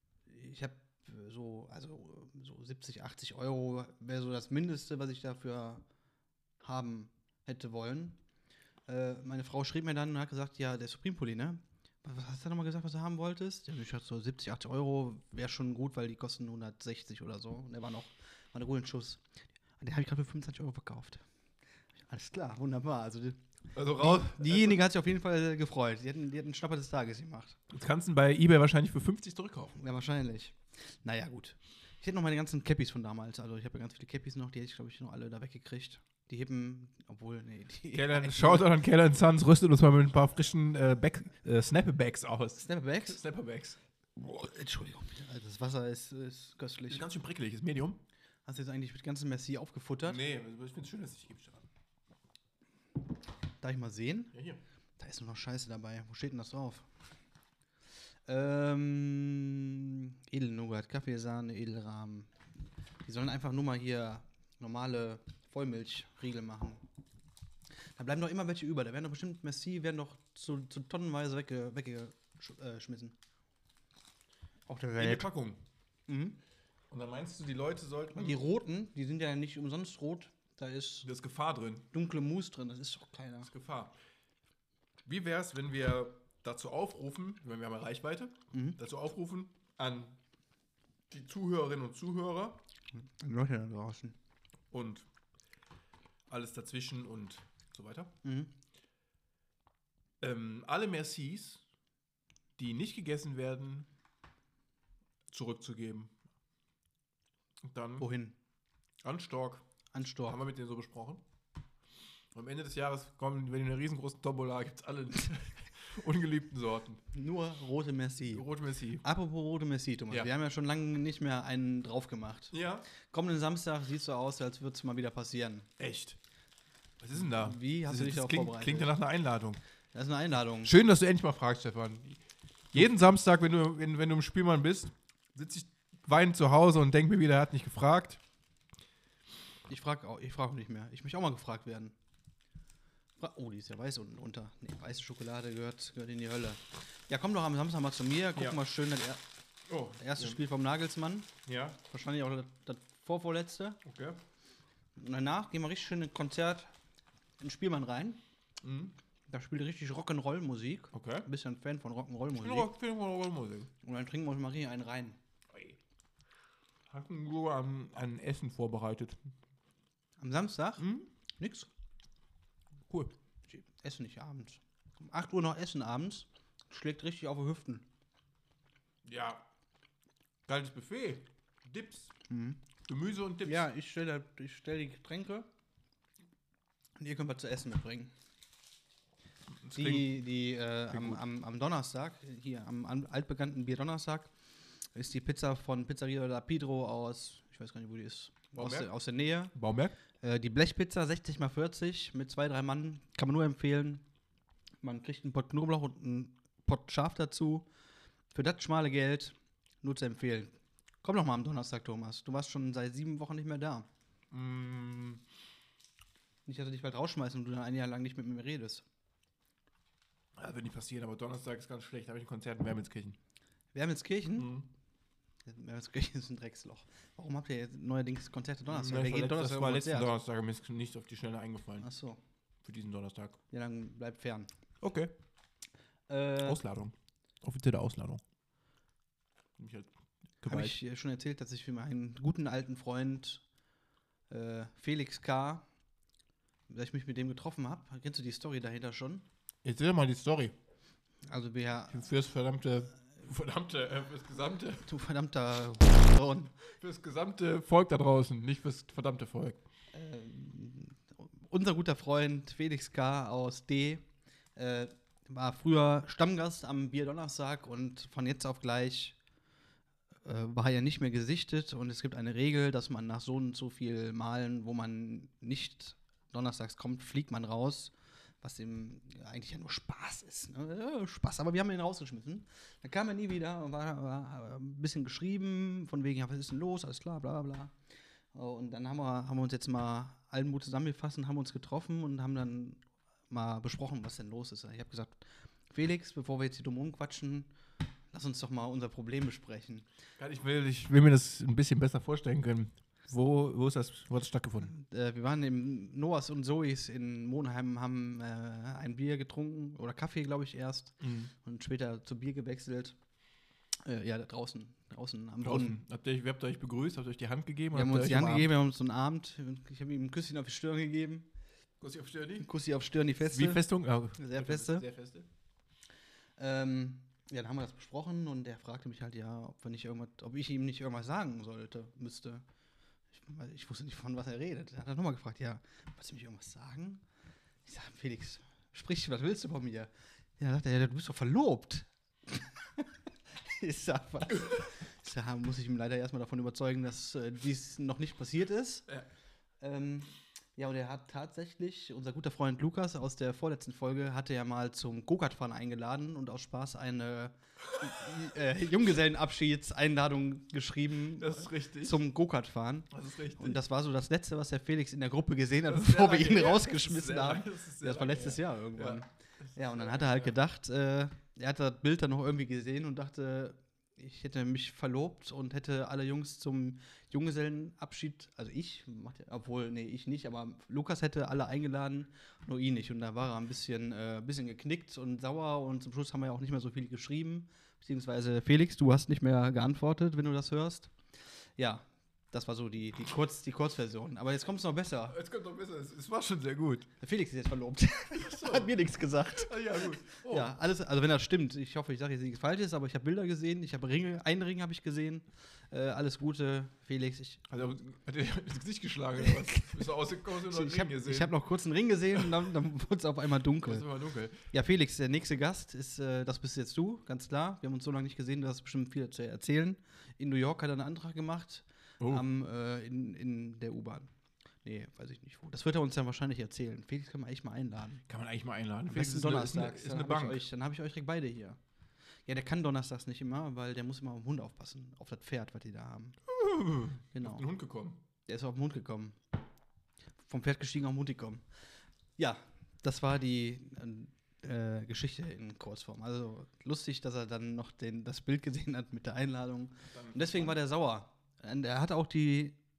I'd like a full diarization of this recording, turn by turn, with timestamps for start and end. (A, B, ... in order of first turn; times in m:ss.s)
0:00.3-0:05.8 A
0:06.6-0:08.2 A
0:08.9-0:19.2 A
0:19.8-0:21.2 A
0:22.0-0:23.4 A
0:23.7-0:24.8 B
0:23.9-0:27.6 A
0:27.7-0:29.8 B
0:29.8-0:38.7 A
0:37.9-0:43.8 B
0:42.6-0:43.2 A
0:44.2-0:47.0 A
0:46.9-0:48.0 B
0:48.5-0:50.2 A
0:50.1-0:51.7 B
0:53.6-0:54.3 A
0:54.3-0:54.6 B
0:55.0-0:56.9 A
0:58.3-1:02.3 A
1:03.0-1:06.8 A
1:08.0-1:13.2 A
1:14.7-1:15.3 A
1:15.0-1:15.6 B
1:16.1-1:16.4 A
1:16.9-1:18.4 B
1:18.1-1:21.1 A
1:21.0-1:21.9 B
1:21.9-1:23.5 A
1:23.5-1:24.0 B
1:25.0-1:30.2 B
1:28.5-1:28.8 A
1:31.1-1:32.6 B
1:32.9-1:34.2 A
1:34.7-1:35.1 B
1:36.3-1:38.1 B
1:38.2-1:38.5 A
1:40.2-1:41.6 B
1:42.6-1:43.9 B
1:45.3-1:46.1 B
1:47.6-1:48.0 B
1:48.0-1:48.4 A
1:49.0-1:49.6 B
1:49.9-1:50.4 A
1:50.3-1:51.2 B
1:52.3-1:57.0 B
1:57.1-1:58.4 A
1:58.3-1:59.0 B
1:59.0-2:05.7 A
2:02.5-2:02.9 B
2:05.8-2:06.2 B
2:07.0-2:09.6 B
2:07.2-2:08.9 A
2:09.9-2:10.7 A
2:10.6-2:12.2 B
2:12.7-2:18.2 B
2:19.7-2:22.0 A
2:23.2-2:29.2 A
2:29.7-2:30.4 B
2:30.0-2:31.3 A
2:31.5-2:31.8 B
2:31.8-2:33.8 A
2:33.8-2:34.2 B
2:35.0-2:36.7 A
2:37.4-2:38.2 A
2:38.6-2:39.0 B
2:39.3-2:42.7 A
2:40.9-2:41.3 B
2:42.4-2:43.7 B
2:43.8-2:45.2 A
2:45.5-2:45.8 B
2:46.9-2:49.3 B
2:50.2-2:50.9 A
2:50.8-2:51.1 B
2:51.4-2:51.7 A
2:52.9-2:53.1 B
2:53.5-2:57.8 A
2:59.0-2:59.4 B
3:00.5-3:02.1 B
3:02.3-3:02.6 A
3:02.9-3:03.7 B
3:03.4-3:05.5 A
3:07.0-3:08.1 A
3:09.5-3:10.2 B
3:09.7-3:14.3 A
3:10.9-3:11.2 B
3:15.0-3:19.6 A
3:18.5-3:18.9 B
3:19.6-3:20.0 B
3:20.2-3:24.0 A
3:24.8-3:27.7 A
3:28.3-3:33.9 A
3:34.3-3:35.2 B
3:36.5-3:38.8 A
3:40.4-3:43.2 B
3:43.7-3:44.5 A
3:44.4-3:44.7 B
3:45.5-3:50.1 A
3:48.7-3:51.9 B
3:51.8-3:52.2 A
3:52.6-3:53.4 B
3:53.5-3:54.5 A
3:54.8-3:55.1 B
3:56.1-3:56.6 A
3:56.4-3:58.2 B
3:59.6-4:00.8 B
4:00.4-4:03.4 A
4:04.3-4:05.6 A
4:06.7-4:09.2 A
4:09.6-4:10.5 B
4:11.3-4:12.0 A
4:11.9-4:14.9 B
4:14.8-4:16.6 A
4:16.8-4:19.6 B
4:19.9-4:24.0 A
4:24.6-4:29.2 A
4:30.2-4:47.7 A
4:48.3-4:57.5 A
4:58.1-4:59.8 A
5:00.2-5:04.7 B
5:04.7-5:13.0 A
5:11.0-5:11.3 B
5:13.8-5:15.8 A
5:15.4-5:18.5 B
5:17.7-5:21.3 A
5:21.8-5:22.5 B
5:22.4-5:23.6 A
5:23.2-5:25.3 B
5:24.2-5:24.8 A
5:26.4-5:32.4 A
5:33.1-5:37.0 A
5:37.6-5:48.9 A
5:49.6-6:30.9 A
6:01.2-6:02.0 B
6:02.9-6:03.6 B
6:05.7-6:10.4 B
6:31.6-6:35.2 A
6:35.1-6:36.9 B
6:37.0-6:47.5 A
6:38.2-6:38.7 B
6:39.4-6:40.5 B
6:47.5-6:51.4 B
6:49.2-6:53.9 A
6:53.6-6:54.4 B
6:54.5-7:04.1 A
7:02.0-7:02.3 B
7:04.6-7:08.0 A
7:08.1-7:10.4 B
7:08.9-7:11.6 A
7:12.3-7:16.2 A
7:16.3-7:18.0 B
7:17.1-7:17.5 A
7:18.3-7:19.2 A
7:20.2-7:21.4 A
7:22.2-7:32.6 A
7:29.9-7:30.6 B